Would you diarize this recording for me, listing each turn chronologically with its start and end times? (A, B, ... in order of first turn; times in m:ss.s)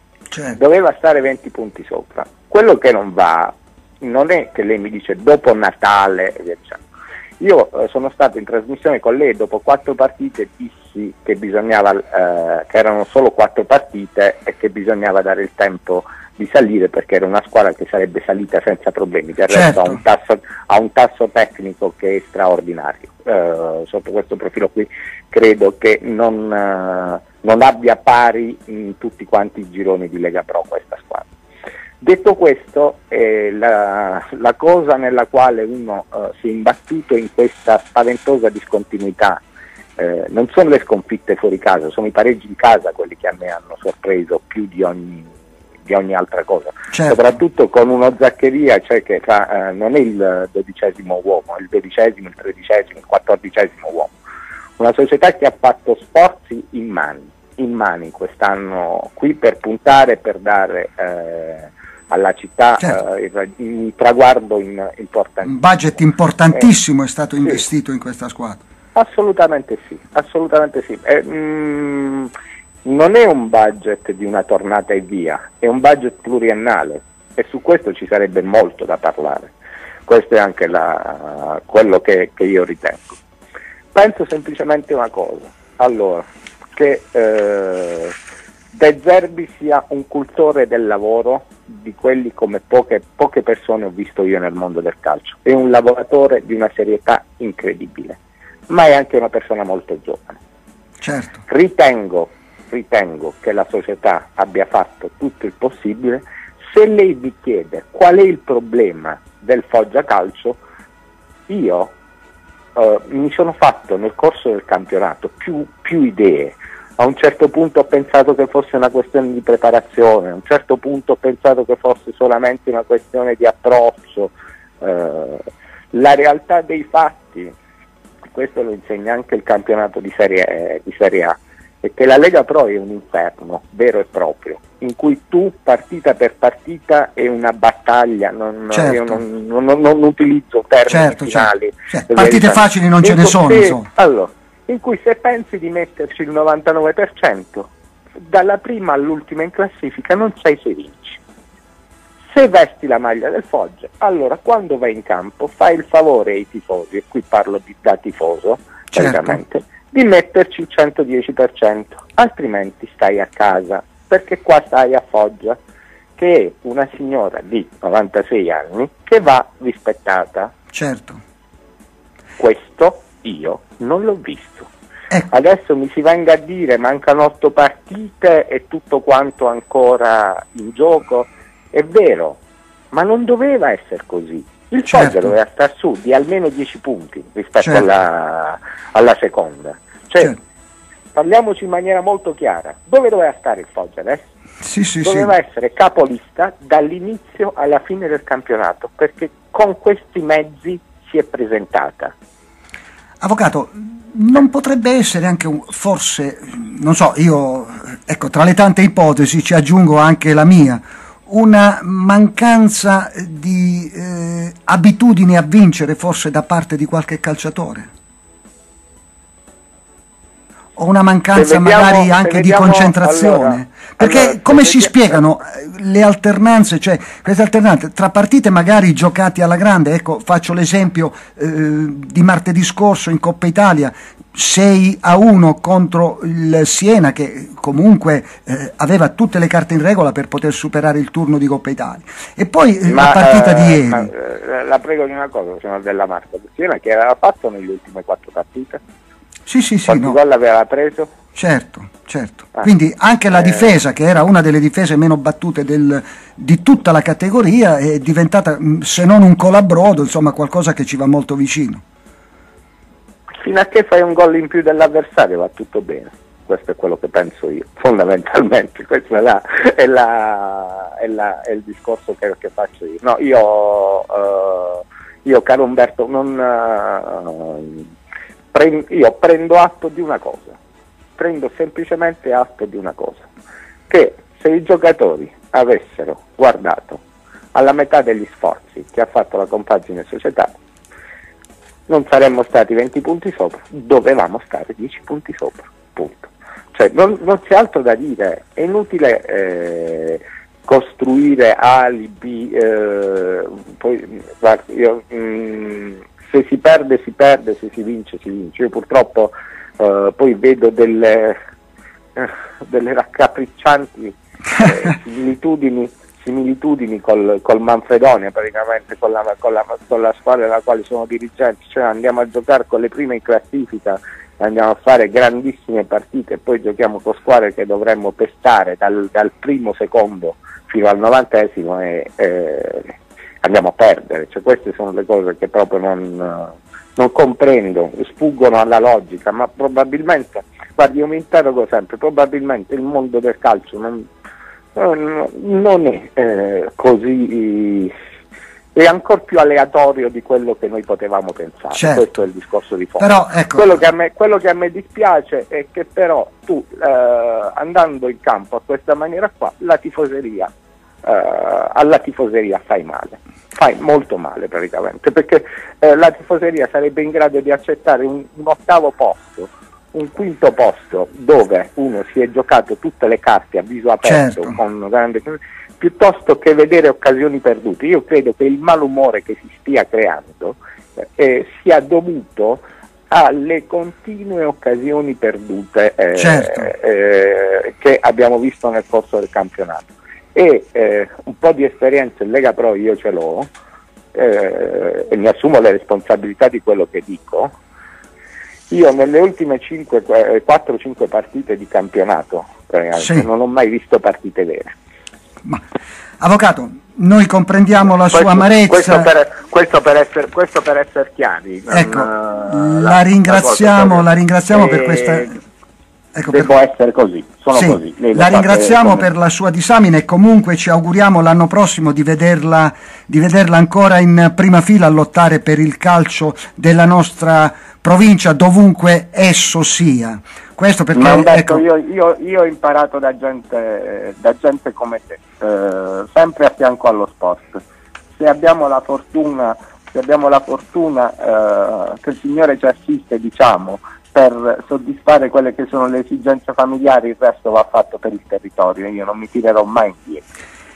0:00.3-0:00.6 A
0:00.6-0:06.8 B
0:07.4-0:31.3 B
0:19.5-0:20.0 A
0:32.0-0:39.4 B
0:40.0-0:45.3 B
0:45.8-0:54.2 B
0:46.9-0:47.2 A
0:54.8-1:06.0 B
1:05.4-1:08.6 A
1:08.9-1:12.3 B
1:12.8-1:19.5 B
1:20.1-1:23.2 B
1:23.9-1:28.1 B
1:28.7-1:38.2 B
1:38.7-1:40.4 B
1:41.0-1:41.4 A
1:41.4-1:50.6 B
1:51.5-1:51.9 B
1:52.7-2:07.5 B
2:08.3-2:31.2 B
2:18.7-2:19.2 A
2:20.9-2:23.9 A
2:32.3-2:45.6 B
2:38.9-2:39.4 A
2:46.2-2:50.5 B
2:50.7-2:51.2 A
2:52.4-2:54.7 B
2:55.3-3:02.4 B
3:02.9-3:10.4 B
3:04.9-3:05.3 A
3:07.6-3:07.8 A
3:11.1-3:14.3 B
3:14.6-3:15.3 A
3:15.0-3:22.1 B
3:23.2-3:37.9 A
3:40.8-4:04.1 A
3:41.3-3:45.2 B
4:02.9-4:08.8 B
4:09.4-4:10.2 A
4:09.9-4:11.1 B
4:11.3-4:21.8 A
4:13.3-4:13.8 B
4:23.4-4:37.9 B
4:38.5-4:40.6 B
4:41.2-4:43.3 B
4:43.9-4:47.0 B
4:47.5-4:50.5 B
4:51.9-5:11.4 B
5:12.1-5:44.1 B
5:44.7-5:47.9 B
5:48.7-6:00.5 B
5:51.7-5:52.1 A
5:53.0-5:53.8 A
6:01.0-6:33.5 B
6:14.0-6:14.6 A
6:26.2-6:26.7 A
6:34.1-6:37.5 B
6:38.7-6:44.7 B
6:43.0-6:43.3 A
6:46.2-6:49.1 A
6:48.1-6:55.4 B
6:51.7-6:55.4 A
6:56.1-6:56.5 A
6:56.3-6:59.1 B
6:57.5-7:11.6 A
7:10.9-7:17.6 B
7:18.2-7:30.2 B